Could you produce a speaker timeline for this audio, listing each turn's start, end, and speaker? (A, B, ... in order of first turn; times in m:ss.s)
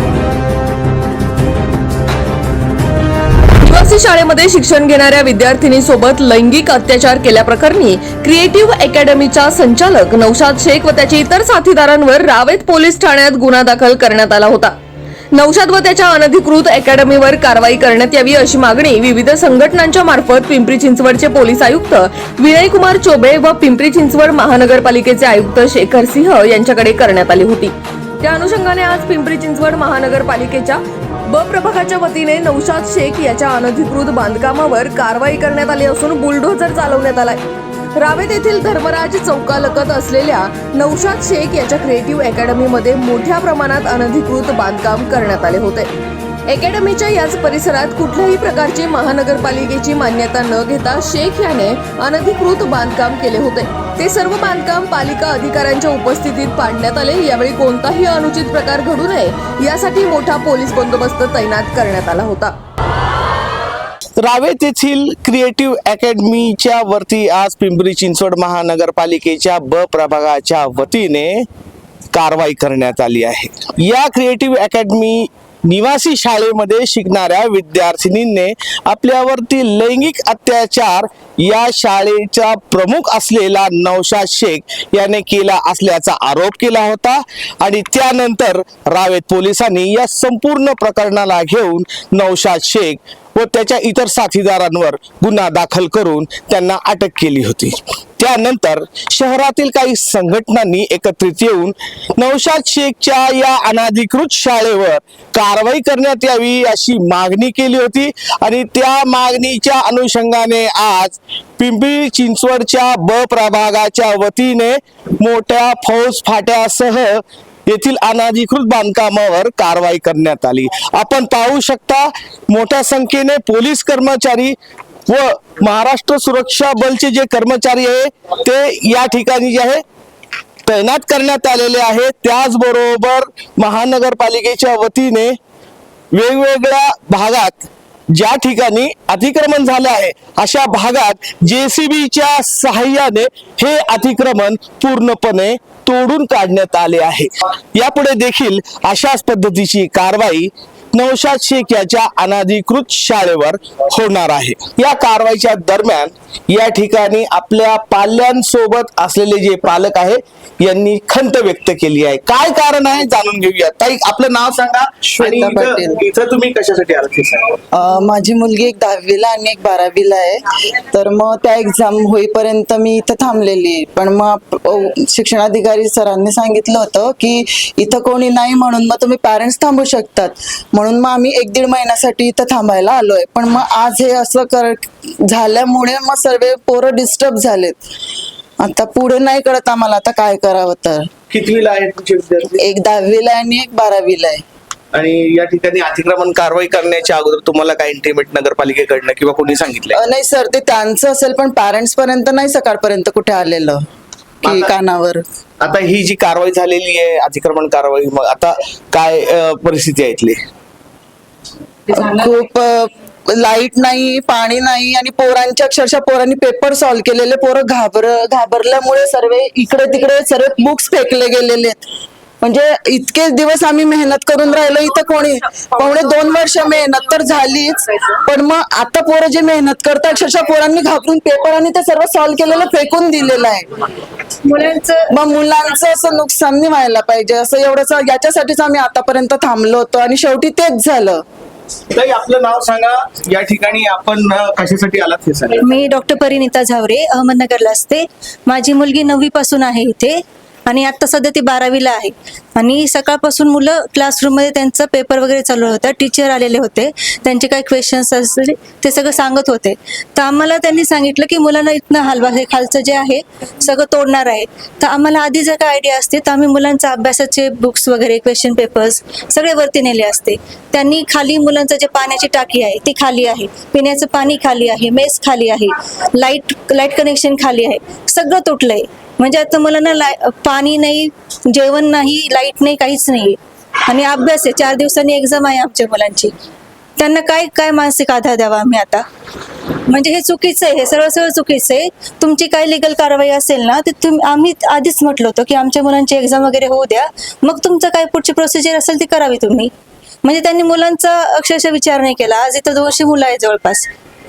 0:03.6-0:14.8 A
0:15.3-0:37.4 A
0:38.0-0:45.9 A
0:46.5-1:02.5 A
1:04.2-1:11.5 B
1:12.1-2:04.6 B
2:05.1-2:09.8 B
2:10.7-2:15.4 B
2:16.1-2:47.6 B
2:45.2-2:46.0 C
2:47.7-3:07.8 C
3:08.6-3:11.1 C
3:11.3-3:12.6 B
3:12.6-3:14.4 C
3:14.9-3:20.0 B
3:19.9-3:23.8 C
3:24.4-3:25.2 C
3:24.4-3:24.7 B
3:25.6-3:30.4 B
3:31.9-3:41.8 C
3:42.4-3:53.7 C
3:54.5-3:55.0 D
3:55.1-4:01.2 C
4:01.9-4:05.7 B
4:05.6-4:46.3 D
4:47.0-4:49.1 D
4:49.9-4:59.7 D
5:00.2-5:03.9 D